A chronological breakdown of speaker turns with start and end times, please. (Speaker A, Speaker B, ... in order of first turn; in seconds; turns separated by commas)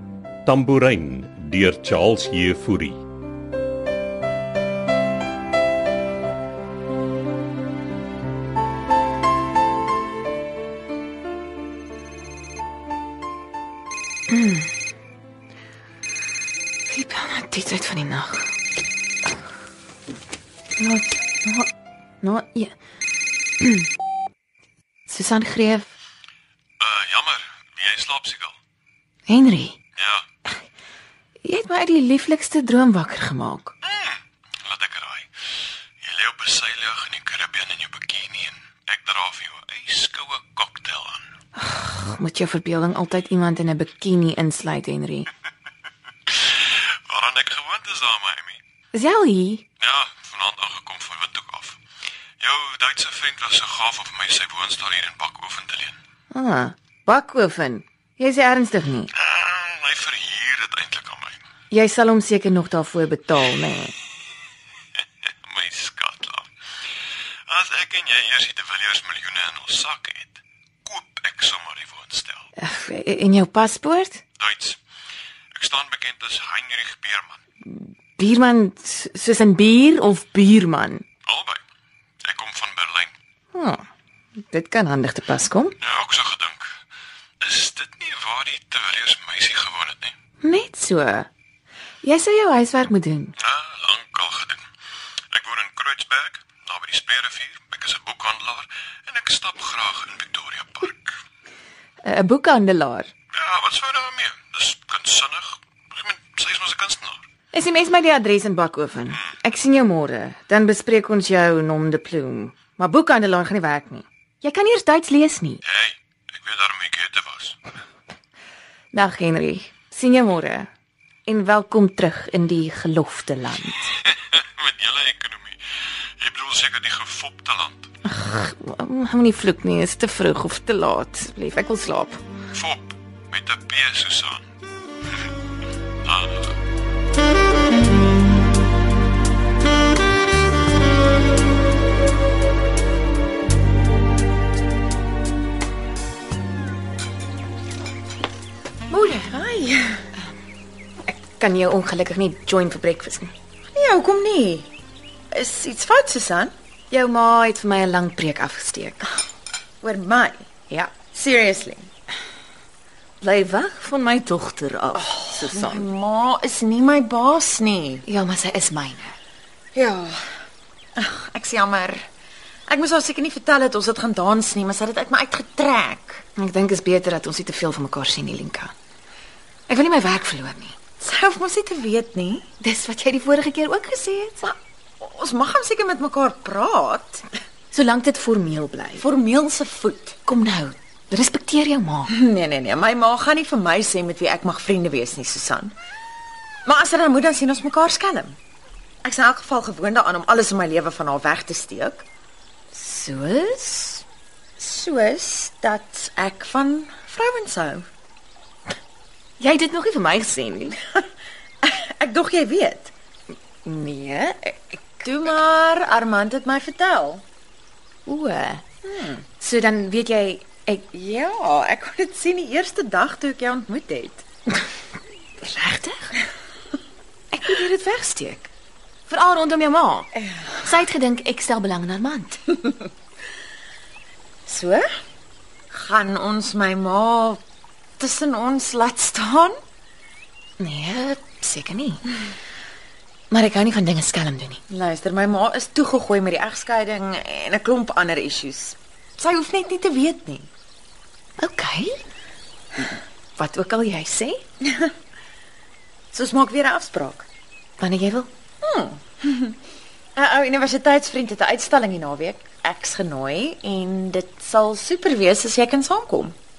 Speaker A: 0.5-3.0, Speaker B: 14.3-14.7, Speaker B: 16.9-18.5, Speaker B: 20.8-21.7, Speaker B: 22.2-22.7, Speaker B: 23.6-23.9, Speaker B: 25.1-25.9, Speaker C: 26.8-28.6, Speaker B: 29.3-29.8, Speaker C: 30.0-30.2, Speaker B: 31.4-33.7, Speaker C: 33.8-35.3, Speaker C: 36.0-41.2, Speaker B: 41.5-45.3, Speaker C: 47.1-48.6, Speaker B: 48.9-49.6, Speaker C: 49.8-51.8, Speaker C: 52.4-56.0, Speaker B: 56.3-59.1, Speaker C: 59.1-61.4, Speaker B: 61.7-63.9, Speaker C: 65.4-66.5, Speaker C: 67.5-72.5, Speaker B: 72.6-74.2, Speaker C: 74.4-74.8, Speaker C: 75.5-77.4, Speaker B: 77.7-81.0, Speaker C: 81.2-81.6, Speaker C: 82.2-83.1, Speaker B: 83.5-83.8, Speaker B: 84.5-85.8, Speaker C: 85.8-86.7, Speaker C: 87.4-90.1, Speaker B: 90.4-91.3, Speaker B: 92.0-93.3, Speaker C: 93.4-94.6, Speaker C: 95.3-101.1, Speaker B: 102.0-103.1, Speaker C: 103.3-107.2, Speaker B: 107.5-115.6, Speaker C: 115.6-117.6, Speaker B: 118.9-120.7, Speaker B: 121.2-123.8, Speaker C: 124.0-125.6, Speaker C: 126.2-127.9, Speaker B: 128.1-132.2, Speaker C: 132.5-134.4, Speaker C: 136.0-136.6, Speaker D: 148.9-150.1, Speaker B: 151.0-153.3, Speaker D: 153.7-154.7, Speaker D: 155.3-156.5, Speaker B: 156.9-159.0, Speaker D: 159.8-160.5, Speaker B: 160.7-160.9, Speaker D: 161.0-161.9, Speaker B: 163.2-165.9, Speaker D: 164.9-168.0, Speaker B: 168.0-169.1, Speaker D: 169.7-170.2, Speaker D: 171.0-172.0, Speaker D: 172.7-176.2, Speaker B: 176.4-178.7, Speaker B: 179.7-180.8, Speaker D: 181.0-182.5, Speaker B: 182.6-184.4, Speaker D: 184.4-187.2, Speaker B: 187.7-189.0, Speaker D: 189.0-190.2, Speaker B: 190.2-192.1, Speaker D: 192.1-195.7, Speaker D: 196.6-198.4, Speaker D: 199.0-202.0, Speaker B: 202.7-204.0, Speaker D: 204.6-207.9, Speaker B: 209.4-210.8, Speaker D: 211.6-212.9, Speaker B: 213.6-214.8, Speaker D: 215.0-217.2, Speaker B: 218.1-218.6, Speaker D: 218.8-219.2, Speaker B: 219.4-220.9, Speaker D: 220.9-224.2, Speaker B: 225.4-226.1, Speaker B: 227.3-228.5, Speaker B: 229.1-232.7, Speaker D: 234.4-234.9, Speaker D: 235.7-237.4, Speaker D: 238.0-239.6, Speaker B: 240.6-242.0, Speaker B: 243.3-244.6, Speaker D: 244.7-250.5, Speaker B: 251.4-252.0, Speaker B: 253.4-254.4, Speaker D: 256.1-257.2, Speaker B: 257.8-258.3, Speaker D: 258.6-259.6, Speaker D: 260.1-266.4